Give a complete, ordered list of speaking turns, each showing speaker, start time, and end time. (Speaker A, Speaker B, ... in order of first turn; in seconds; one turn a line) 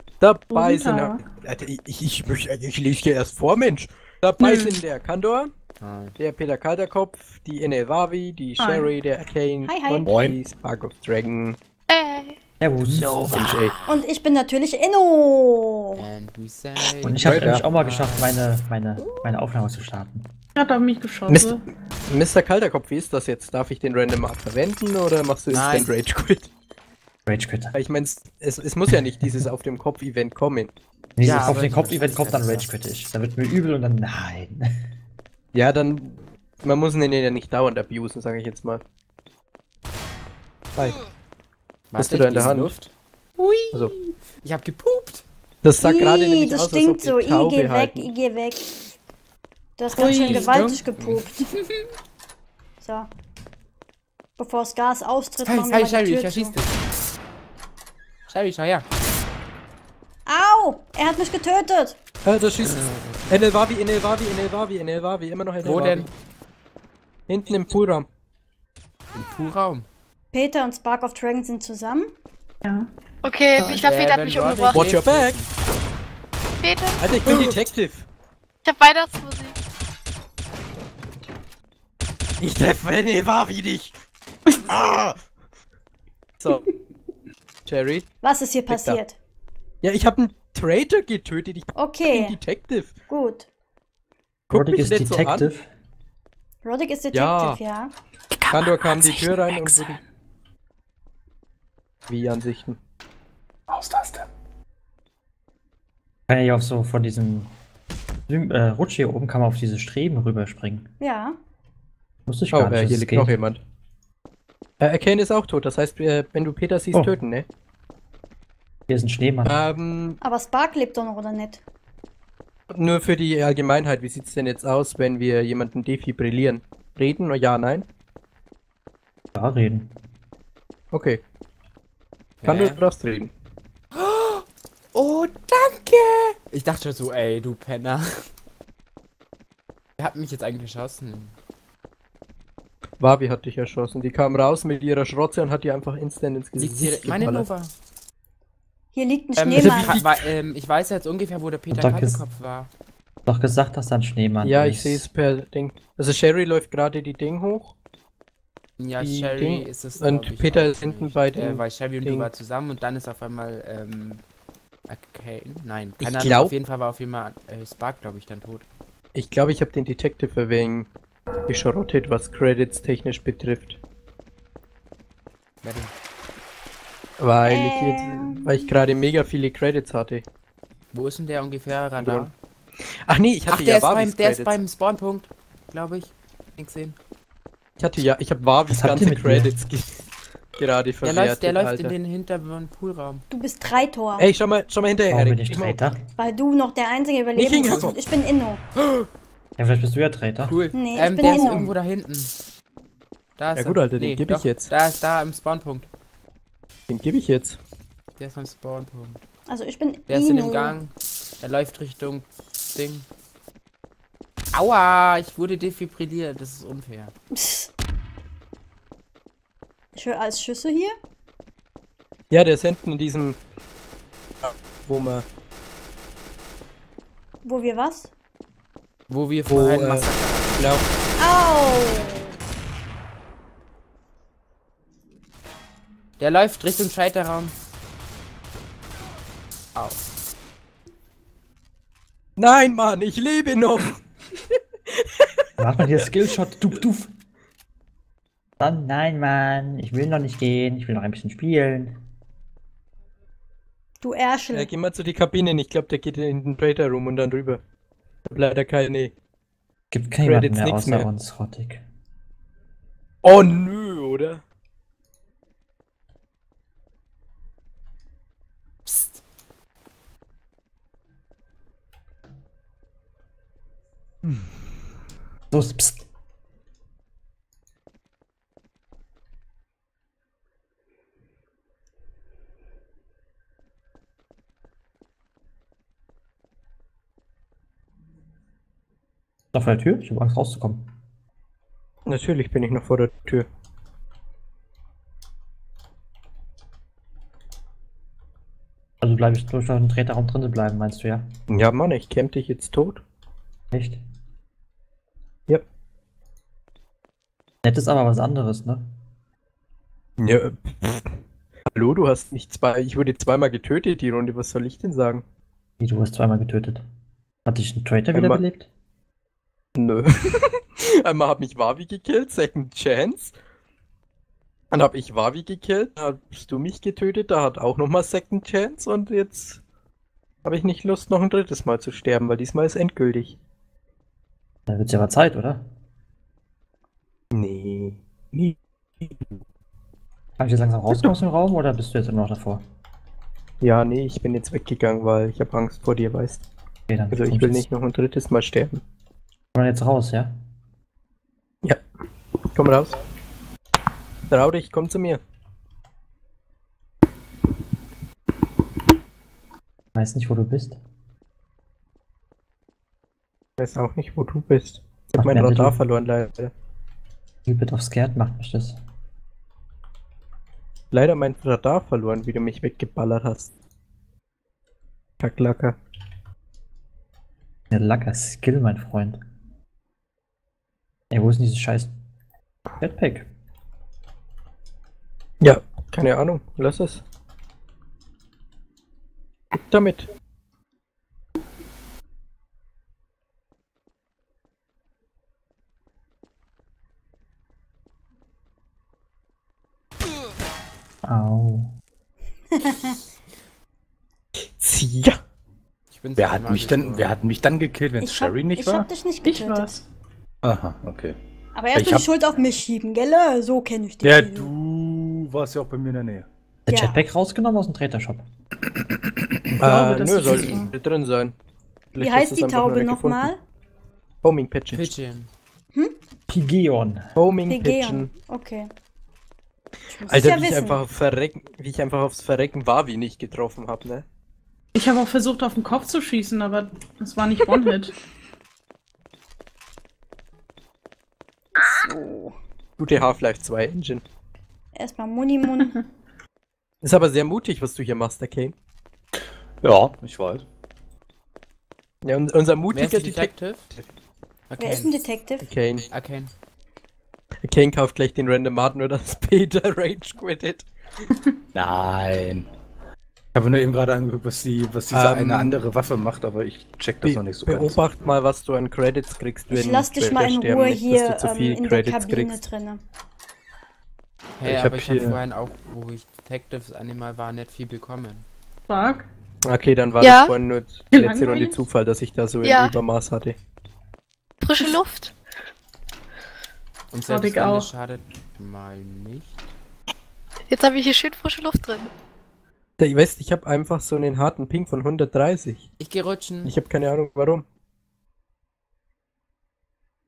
Speaker A: 0.2-5.5
Speaker B: 0.5-1.2
Speaker B: 4.4-4.8
Speaker C: 5.8-6.2
Speaker A: 6.2-11.6
Speaker B: 8.6-8.9
Speaker D: 9.7-10.1
Speaker E: 10.1-10.4
Speaker F: 11.9-12.4
Speaker G: 12.6-13.6
Speaker A: 12.9-13.7
Speaker D: 13.9-16.1
Speaker C: 16.0-18.3
Speaker G: 17.0-20.3
Speaker E: 17.2-17.6
Speaker B: 20.6-21.6
Speaker A: 21.3-26.5
Speaker C: 25.5-25.9
Speaker G: 27.3-27.7
Speaker A: 27.7-30.7
Speaker G: 31.2-34.6
Speaker C: 31.2-32.7
Speaker A: 35.5-38.8
Speaker C: 41.9-45.2
Speaker A: 42.0-42.7
Speaker A: 45.6-48.1
Speaker D: 45.8-48.7
Speaker D: 49.8-51.6
Speaker B: 49.9-50.7
Speaker C: 50.0-51.2
Speaker D: 52.8-53.1
Speaker D: 54.4-56.5
Speaker C: 55.5-56.8
Speaker C: 58.3-58.9
Speaker D: 60.3-62.0
Speaker A: 62.2-66.1
Speaker C: 65.6-66.1
Speaker A: 67.3-68.1
Speaker C: 69.1-69.9
Speaker D: 70.3-72.1
Speaker F: 73.2-74.9
Speaker C: 73.6-75.5
Speaker A: 74.7-75.4
Speaker F: 76.6-77.1
Speaker A: 77.0-78.1
Speaker F: 78.6-79.5
Speaker A: 82.4-83.9
Speaker A: 84.5-85.2
Speaker A: 86.4-86.7
Speaker A: 87.7-88.1
Speaker D: 88.2-89.2
Speaker A: 88.7-89.0
Speaker A: 89.8-92.9
Speaker D: 91.8-92.4
Speaker D: 93.1-93.5
Speaker A: 94.5-95.5
Speaker G: 94.5-95.7
Speaker D: 96.6-97.9
Speaker A: 97.1-97.6
Speaker A: 98.5-100.0
Speaker F: 99.0-99.8
Speaker A: 102.1-102.8
Speaker E: 103.7-104.3
Speaker G: 106.3-107.5
Speaker G: 108.3-110.9
Speaker D: 111.0-111.4
Speaker G: 112.3-113.4
Speaker A: 112.5-113.6
Speaker A: 114.8-117.5
Speaker G: 116.9-117.2
Speaker G: 118.9-119.6
Speaker A: 119.5-120.2
Speaker D: 120.2-121.6
Speaker A: 122.7-127.9
Speaker G: 129.3-129.9
Speaker A: 130.9-131.2
Speaker C: 132.4-132.8
Speaker A: 132.4-133.3
Speaker C: 133.9-138.3
Speaker C: 140.0-141.3
Speaker A: 143.0-147.5
Speaker C: 146.6-147.7
Speaker D: 148.9-150.0
Speaker C: 149.4-152.7
Speaker A: 149.6-150.3
Speaker G: 151.7-152.2
Speaker G: 153.3-155.1
Speaker A: 154.4-157.7
Speaker C: 158.8-164.2
Speaker A: 159.0-162.3
Speaker C: 164.9-168.7
Speaker A: 166.0-166.5
Speaker A: 169.2-170.9
Speaker A: 171.5-173.8
Speaker C: 175.6-175.9
Speaker A: 177.2-180.2
Speaker D: 177.5-178.7
Speaker C: 180.9-182.3
Speaker A: 182.0-182.3
Speaker A: 183.1-184.6
Speaker C: 183.5-187.0
Speaker A: 187.8-189.9
Speaker G: 188.7-189.5
Speaker A: 190.6-191.9
Speaker C: 191.0-193.2
Speaker D: 193.3-194.3
Speaker A: 194.2-195.9
Speaker G: 195.1-196.1
Speaker D: 196.2-198.6
Speaker A: 197.3-198.0
Speaker G: 199.6-200.6
Speaker C: 200.4-202.3
Speaker D: 200.7-201.7
Speaker A: 201.2-201.6
Speaker C: 203.4-205.9
Speaker A: 203.6-204.7
Speaker A: 206.9-207.6
Speaker C: 208.2-209.2
Speaker D: 209.5-210.8
Speaker C: 210.1-213.1
Speaker C: 214.5-217.1
Speaker D: 217.3-217.7
Speaker D: 219.9-221.0
Speaker A: 222.3-223.4
Speaker A: 224.4-225.2
Speaker D: 227.4-228.1
Speaker C: 229.1-230.8
Speaker A: 229.5-230.1
Speaker A: 230.6-230.8
Speaker D: 231.2-232.3
Speaker C: 236.2-237.5
Speaker A: 242.4-244.0
Speaker G: 245.6-247.1
Speaker G: 248.6-252.0
Speaker D: 254.0-254.7
Speaker A: 254.5-257.6
Speaker A: 258.3-259.1
Speaker G: 259.9-261.8
Speaker A: 260.2-261.1
Speaker A: 263.2-264.4
Speaker C: 268.9-269.2
Speaker G: 275.5-276.0
Speaker G: 289.5-290.9
Speaker A: 292.1-293.5
Speaker G: 299.0-301.3
Speaker A: 301.5-303.0
Speaker G: 303.7-304.0
Speaker G: 307.6-308.9
Speaker A: 310.2-311.1
Speaker A: 311.7-315.2
Speaker G: 315.8-316.8
Speaker G: 317.4-318.7
Speaker A: 318.1-318.4
Speaker A: 319.8-323.4
Speaker A: 324.7-329.6
Speaker A: 330.4-333.4
Speaker G: 334.7-335.6
Speaker A: 337.3-338.0
Speaker G: 340.4-342.6
Speaker A: 340.9-341.2
Speaker A: 343.6-346.4
Speaker G: 346.9-347.7
Speaker A: 347.1-348.8
Speaker G: 349.6-350.3
Speaker A: 352.5-353.0
Speaker A: 354.3-355.2
Speaker G: 359.9-360.8
Speaker A: 363.6-366.5
Speaker G: 365.1-365.8
Speaker G: 367.5-368.8
Speaker A: 370.9-373.5
Speaker A: 375.2-375.8
Speaker G: 377.7-379.2
Speaker G: 381.1-381.9
Speaker G: 382.8-383.3
Speaker A: 385.4-387.0
Speaker A: 389.5-390.1
Speaker G: 401.0-401.7
Speaker D: 402.5-403.0
Speaker A: 404.4-405.2
Speaker C: 405.9-407.1
Speaker E: 406.2-408.9
Speaker D: 408.0-409.7
Speaker B: 409.2-409.9
Speaker E: 410.4-411.2
Speaker D: 411.6-414.5
Speaker E: 411.7-412.1
Speaker E: 414.0-416.3
Speaker G: 416.7-418.2
Speaker D: 416.7-417.0
Speaker A: 419.6-421.3
Speaker B: 419.6-420.7
Speaker A: 421.9-423.3
Speaker D: 422.0-423.4
Speaker A: 424.2-424.9
Speaker C: 424.7-425.3
Speaker G: 426.3-427.1
Speaker A: 427.2-428.1
Speaker D: 427.5-428.7
Speaker D: 429.9-430.8
Speaker A: 430.1-434.1
Speaker B: 434.8-437.9
Speaker D: 441.6-442.4
Speaker A: 442.8-444.0
Speaker D: 444.8-445.8
Speaker A: 446.8-448.6
Speaker E: 449.6-450.4
Speaker A: 452.0-453.3
Speaker C: 452.7-453.8
Speaker C: 454.5-455.0
Speaker D: 454.6-455.5
Speaker A: 455.4-455.9
Speaker C: 455.9-456.3
Speaker A: 457.4-460.7
Speaker E: 461.6-462.5
Speaker E: 463.3-467.8
Speaker A: 464.9-465.6
Speaker A: 467.0-472.4
Speaker D: 469.5-472.8
Speaker C: 474.4-478.3
Speaker E: 474.4-475.2
Speaker B: 478.7-479.1
Speaker A: 479.4-483.4
Speaker F: 480.0-480.3
Speaker B: 480.9-481.6
Speaker F: 482.4-482.7
Speaker F: 484.4-485.1
Speaker C: 486.9-489.4
Speaker B: 487.1-487.7
Speaker F: 490.5-491.9
Speaker A: 492.8-495.7
Speaker C: 495.8-496.5
Speaker A: 496.4-497.4